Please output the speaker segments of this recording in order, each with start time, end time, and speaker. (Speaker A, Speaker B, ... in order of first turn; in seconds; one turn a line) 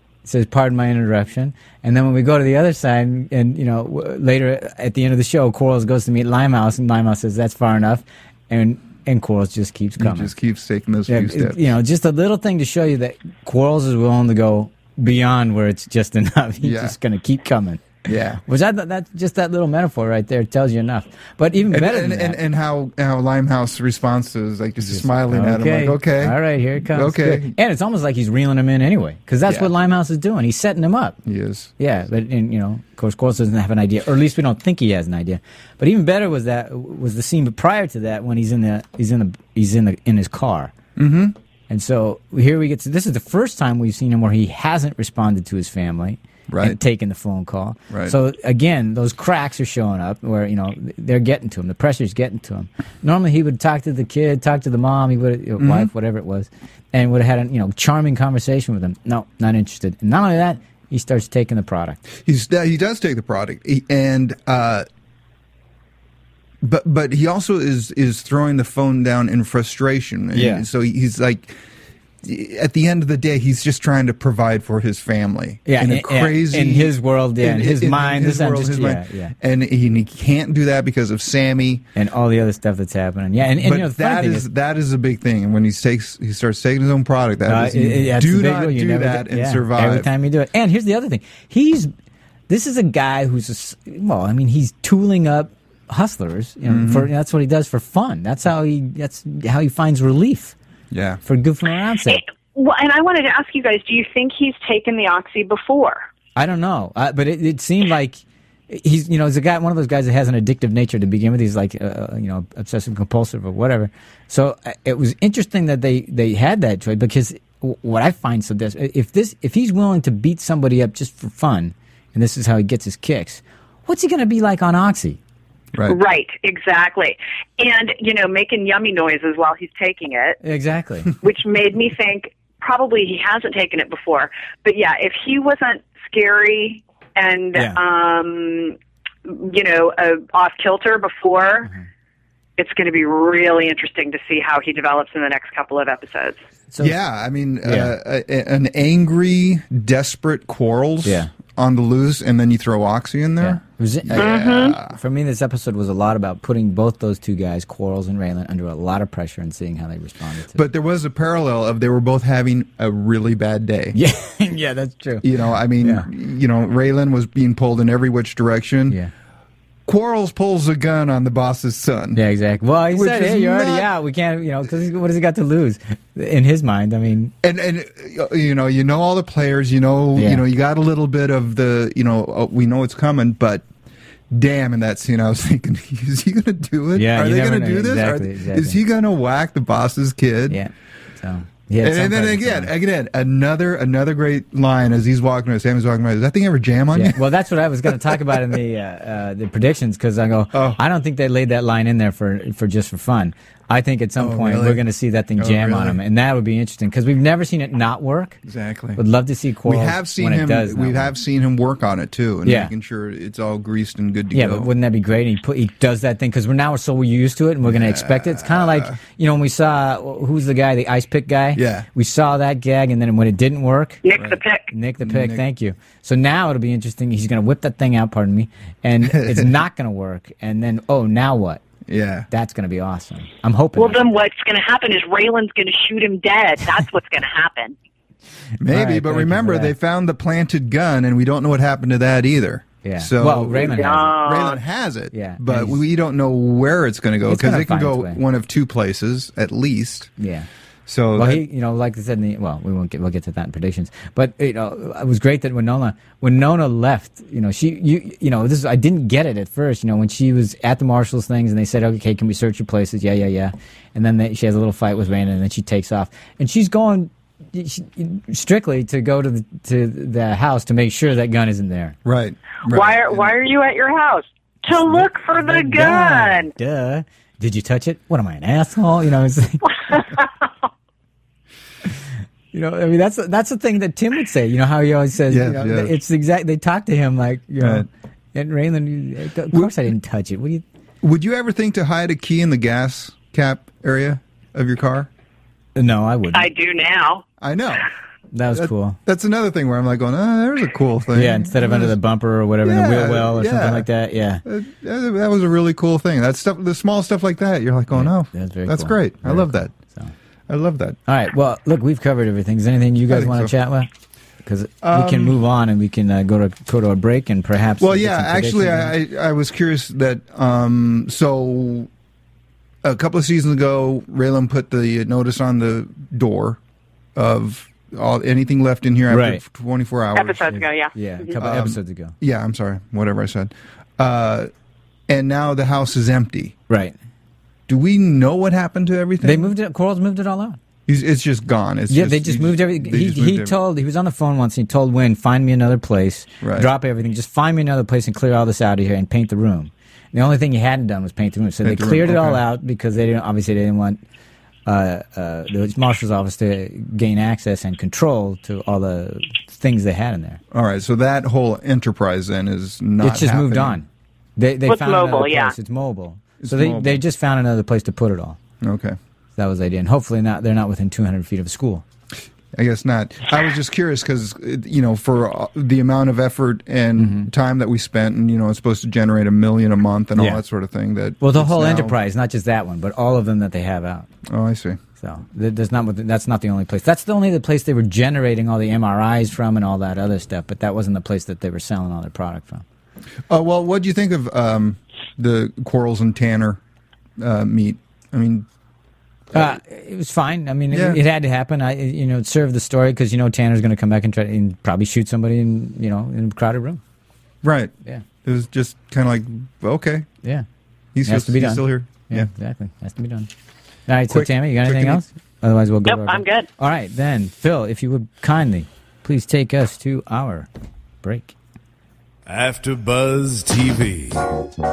Speaker A: 0.2-10.3
Speaker B: 10.0-11.6
Speaker A: 11.1-22.4
Speaker B: 16.6-16.9
Speaker B: 18.0-18.4
Speaker B: 21.7-27.5
Speaker A: 24.8-31.2
Speaker B: 29.4-29.7
Speaker B: 31.2-31.7
Speaker A: 31.8-40.7
Speaker B: 41.0-41.4
Speaker A: 41.7-62.0
Speaker B: 46.5-46.8
Speaker B: 47.9-48.1
Speaker B: 55.6-55.9
Speaker B: 62.2-64.8
Speaker B: 66.6-71.6
Speaker A: 70.3-70.7
Speaker B: 72.2-81.8
Speaker A: 75.7-79.3
Speaker A: 82.0-84.5
Speaker B: 83.6-90.1
Speaker A: 87.5-91.9
Speaker A: 92.5-100.5
Speaker B: 96.7-97.1
Speaker B: 100.9-101.2
Speaker A: 101.2-102.2
Speaker C: 102.1-106.0
Speaker A: 106.3-125.2
Speaker C: 125.8-130.4
Speaker A: 130.4-131.1
Speaker C: 131.2-141.7
Speaker C: 142.6-146.4
Speaker B: 146.8-155.0
Speaker A: 147.6-147.9
Speaker A: 151.0-151.3
Speaker A: 153.4-154.3
Speaker C: 154.2-154.8
Speaker A: 154.9-160.6
Speaker B: 160.5-163.9
Speaker A: 163.9-165.3
Speaker B: 165.2-169.0
Speaker A: 165.8-166.1
Speaker B: 169.8-172.2
Speaker A: 172.1-177.3
Speaker B: 172.9-173.9
Speaker B: 177.4-183.7
Speaker A: 180.2-180.4
Speaker B: 184.3-190.6
Speaker A: 186.9-188.8
Speaker A: 190.5-192.7
Speaker B: 191.8-197.2
Speaker A: 196.9-208.4
Speaker B: 200.5-200.8
Speaker B: 204.2-204.8
Speaker B: 205.4-206.0
Speaker B: 208.4-209.0
Speaker A: 209.0-211.1
Speaker B: 209.6-214.7
Speaker A: 212.4-212.7
Speaker A: 214.3-224.0
Speaker B: 217.7-218.9
Speaker B: 221.6-221.8
Speaker C: 224.0-224.7
Speaker B: 224.1-224.4
Speaker A: 224.7-231.6
Speaker B: 225.0-225.4
Speaker B: 229.0-229.5
Speaker B: 231.9-232.3
Speaker A: 232.3-234.0
Speaker C: 233.8-237.7
Speaker B: 238.6-250.1
Speaker A: 238.7-239.7
Speaker A: 242.8-244.2
Speaker C: 243.5-244.6
Speaker A: 245.1-245.8
Speaker A: 247.2-248.2
Speaker A: 250.2-250.5
Speaker B: 250.8-251.4
Speaker A: 251.2-272.0
Speaker B: 272.0-273.3
Speaker C: 272.7-276.5
Speaker A: 274.7-280.0
Speaker A: 282.5-290.6
Speaker B: 285.3-285.9
Speaker B: 287.6-287.9
Speaker B: 291.0-295.1
Speaker A: 295.7-296.5
Speaker C: 296.3-297.2
Speaker B: 297.4-297.9
Speaker A: 298.3-299.0
Speaker B: 298.5-301.9
Speaker A: 301.1-304.4
Speaker B: 302.6-303.9
Speaker B: 304.4-309.7
Speaker A: 307.9-310.1
Speaker B: 310.5-311.0
Speaker A: 311.1-313.9
Speaker B: 313.1-313.5
Speaker A: 314.4-318.9
Speaker B: 314.8-315.4
Speaker B: 317.8-321.9
Speaker B: 322.8-326.6
Speaker B: 327.1-330.6
Speaker A: 329.1-329.4
Speaker C: 330.1-331.4
Speaker A: 330.5-332.1
Speaker B: 331.4-334.5
Speaker B: 335.1-336.6
Speaker A: 336.7-336.9
Speaker B: 337.7-339.5
Speaker A: 339.2-340.6
Speaker B: 340.9-343.6
Speaker A: 341.9-354.0
Speaker B: 346.4-346.7
Speaker B: 351.6-352.4
Speaker A: 354.6-360.4
Speaker B: 360.5-363.8
Speaker A: 363.0-368.4
Speaker C: 364.7-365.5
Speaker B: 366.4-367.0
Speaker B: 368.6-369.0
Speaker A: 369.4-371.8
Speaker B: 372.6-381.9
Speaker A: 377.0-377.3
Speaker A: 380.1-380.4
Speaker A: 381.2-384.1
Speaker B: 384.2-384.8
Speaker A: 385.0-392.6
Speaker B: 393.3-396.6
Speaker B: 397.2-398.4
Speaker A: 399.3-406.8
Speaker B: 400.7-401.0
Speaker B: 407.4-410.1
Speaker B: 410.9-412.3
Speaker A: 411.0-413.3
Speaker A: 413.9-420.5
Speaker B: 414.1-415.0
Speaker C: 415.9-416.5
Speaker A: 421.0-421.3
Speaker D: 422.3-424.2